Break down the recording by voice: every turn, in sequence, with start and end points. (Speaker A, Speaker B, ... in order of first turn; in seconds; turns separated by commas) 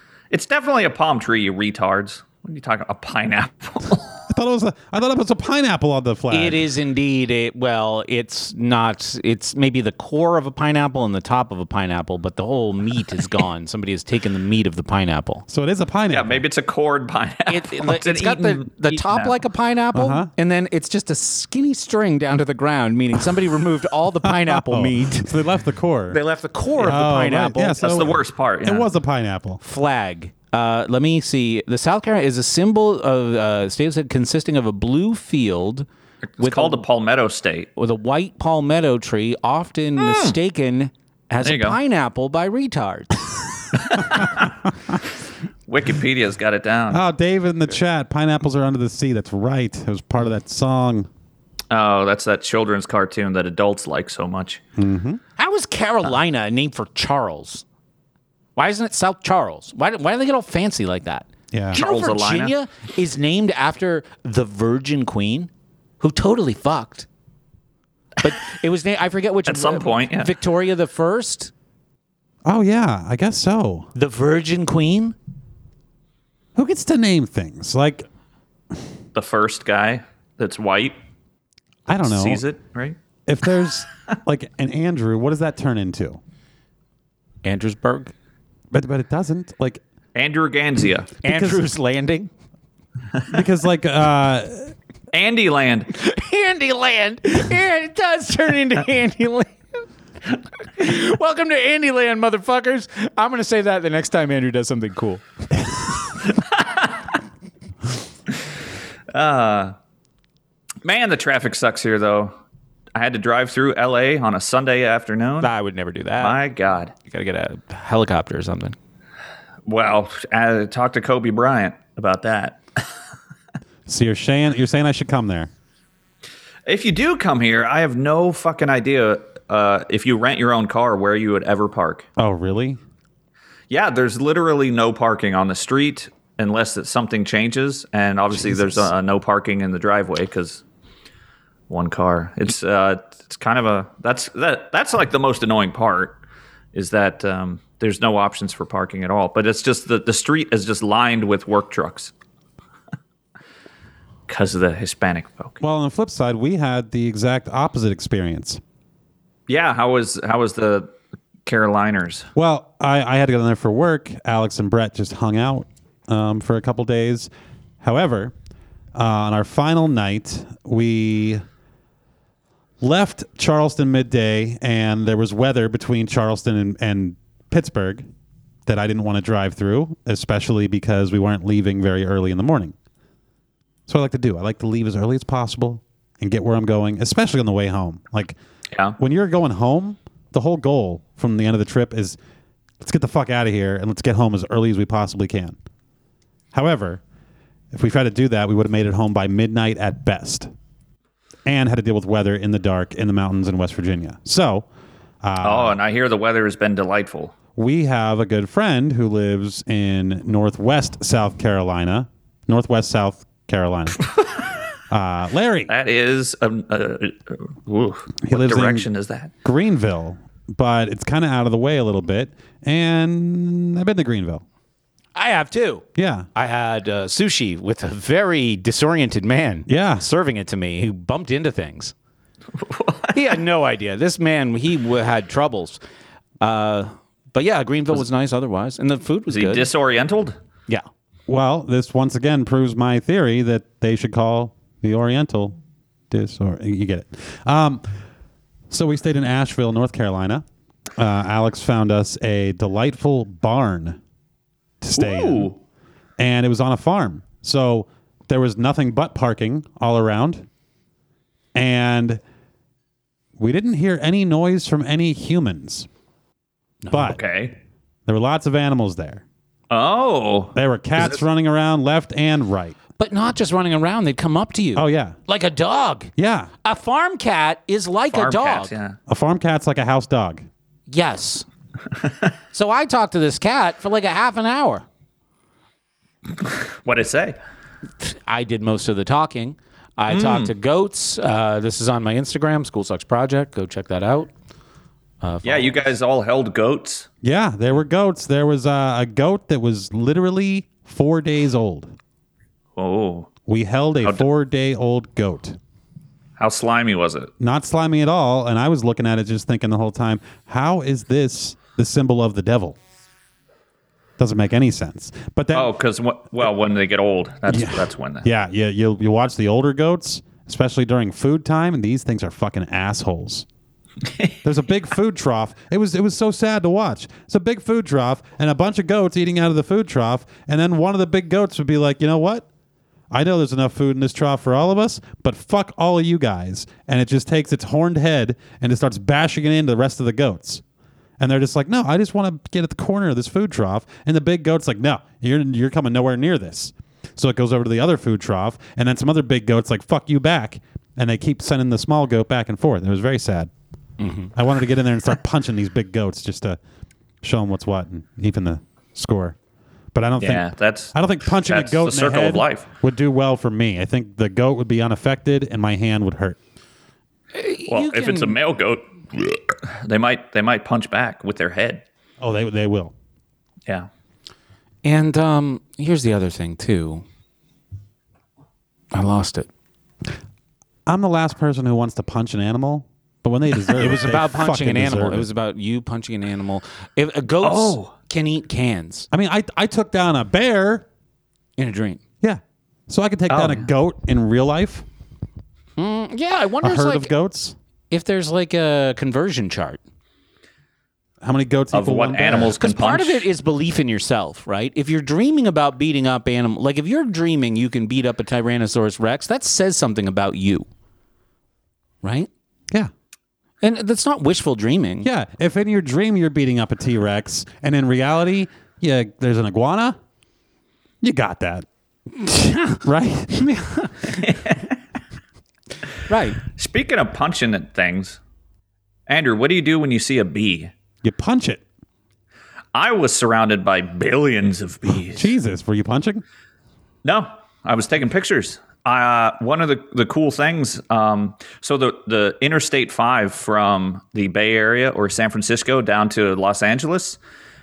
Speaker A: 0.3-4.2, Speaker B: 4.3-6.7, Speaker C: 6.3-15.5, Speaker B: 15.5-16.4, Speaker A: 16.1-19.4, Speaker C: 17.5-25.3, Speaker B: 19.9-20.3, Speaker B: 24.2-26.2, Speaker C: 26.1-28.0, Speaker B: 26.8-29.6, Speaker A: 27.8-28.9, Speaker C: 29.6-35.9, Speaker A: 36.4-37.7, Speaker C: 36.4-36.8, Speaker C: 37.8-43.2, Speaker A: 40.0-40.4, Speaker A: 41.4-41.8, Speaker A: 43.8-44.5, Speaker A: 45.7-47.0, Speaker B: 46.9-51.1, Speaker A: 51.7-54.6, Speaker B: 54.8-55.2, Speaker C: 55.4-57.6, Speaker C: 58.6-67.1, Speaker B: 61.5-61.8, Speaker A: 61.7-62.6, Speaker C: 68.2-71.5, Speaker A: 69.5-70.3, Speaker B: 72.5-73.9, Speaker C: 74.0-75.2, Speaker B: 76.6-78.1, Speaker A: 79.2-81.0, Speaker B: 81.9-82.4, Speaker A: 81.9-83.0, Speaker B: 83.3-86.2, Speaker C: 87.4-88.1, Speaker B: 88.7-89.8, Speaker A: 90.2-91.1, Speaker C: 91.2-92.3, Speaker B: 91.3-91.7, Speaker B: 93.3-94.7, Speaker A: 95.1-95.9, Speaker C: 95.9-99.6, Speaker C: 100.8-105.2, Speaker A: 106.6-106.9, Speaker A: 109.1-109.8, Speaker A: 110.8-112.3, Speaker A: 113.0-115.5, Speaker C: 115.4-116.4, Speaker A: 116.2-116.9, Speaker C: 117.0-118.8, Speaker A: 119.7-122.8, Speaker B: 123.9-125.5, Speaker A: 126.7-132.1, Speaker B: 132.2-132.8, Speaker A: 133.7-140.6, Speaker B: 138.3-138.9, Speaker A: 141.7-146.2, Speaker A: 146.7-152.1, Speaker A: 154.3-155.6, Speaker B: 155.6-158.6, Speaker A: 159.5-160.9, Speaker A: 161.5-162.3, Speaker B: 162.3-167.3, Speaker B: 167.8-168.3, Speaker B: 168.9-171.4, Speaker B: 172.8-178.1, Speaker B: 178.7-182.8, Speaker B: 183.9-188.4, Speaker A: 188.7-189.0, Speaker B: 189.0-192.2, Speaker B: 192.8-195.6, Speaker B: 196.5-197.0, Speaker B: 197.7-200.5, Speaker B: 201.4-204.7, Speaker B: 205.2-205.8, Speaker A: 205.4-207.3, Speaker B: 207.6-214.2, Speaker B: 214.9-215.7, Speaker A: 215.7-219.3, Speaker B: 218.2-218.9, Speaker B: 219.4-224.4, Speaker C: 225.2-231.9, Speaker B: 226.0-226.3, Speaker B: 229.7-230.1, Speaker A: 232.6-233.2, Speaker C: 233.1-235.8, Speaker C: 236.4-239.7, Speaker A: 239.3-240.4, Speaker B: 241.3-245.6, Speaker B: 246.1-247.8, Speaker B: 248.7-250.4, Speaker B: 251.0-254.0, Speaker B: 254.8-255.5, Speaker A: 255.0-255.6, Speaker B: 256.2-260.5, Speaker B: 261.6-262.2, Speaker B: 263.4-265.9, Speaker C: 266.8-267.1, Speaker B: 266.9-267.2, Speaker A: 267.0-267.6, Speaker B: 268.1-269.2, Speaker A: 269.7-271.1, Speaker B: 270.6-272.8, Speaker C: 273.0-276.1, Speaker B: 274.8-275.2, Speaker B: 276.2-276.5, Speaker C: 276.6-278.7, Speaker A: 278.1-279.0, Speaker B: 279.1-280.4, Speaker C: 280.9-281.5, Speaker C: 282.5-284.8, Speaker A: 286.7-287.4, Speaker C: 288.0-294.3, Speaker A: 290.1-290.5, Speaker C: 295.2-295.7, Speaker A: 295.4-297.1, Speaker B: 297.2-301.9, Speaker A: 302.8-303.3, Speaker B: 303.5-305.6, Speaker A: 306.4-307.3, Speaker B: 307.4-312.8, Speaker B: 314.2-315.8, Speaker A: 315.5-318.3, Speaker B: 317.5-323.5, Speaker B: 324.4-332.5, Speaker B: 333.1-340.6, Speaker B: 341.2-353.5, Speaker C: 354.0-354.3, Speaker B: 354.3-356.6, Speaker B: 357.2-359.4, Speaker B: 359.9-366.4, Speaker A: 360.2-362.7, Speaker C: 367.3-368.4, Speaker A: 367.7-371.8, Speaker B: 372.2-372.9, Speaker C: 374.8-377.1, Speaker C: 378.9-379.5, Speaker B: 380.9-385.3, Speaker C: 383.8-389.1, Speaker A: 387.4-387.9, Speaker B: 389.1-390.9, Speaker C: 391.6-392.0, Speaker B: 392.2-394.9, Speaker A: 393.3-393.7, Speaker C: 395.8-397.1, Speaker B: 396.6-397.6, Speaker C: 397.9-399.8, Speaker B: 401.2-402.6, Speaker A: 401.7-403.3, Speaker C: 402.6-410.7, Speaker C: 412.0-412.3, Speaker C: 413.6-415.1, Speaker B: 415.0-420.0, Speaker B: 421.0-421.7, Speaker C: 422.2-422.8, Speaker B: 422.8-423.4, Speaker C: 423.4-424.2, Speaker A: 424.2-424.7, Speaker C: 426.1-426.4, Speaker A: 426.5-428.2, Speaker A: 429.1-430.7, Speaker B: 431.0-431.6, Speaker A: 432.7-435.3, Speaker B: 435.1-436.2, Speaker A: 437.0-447.2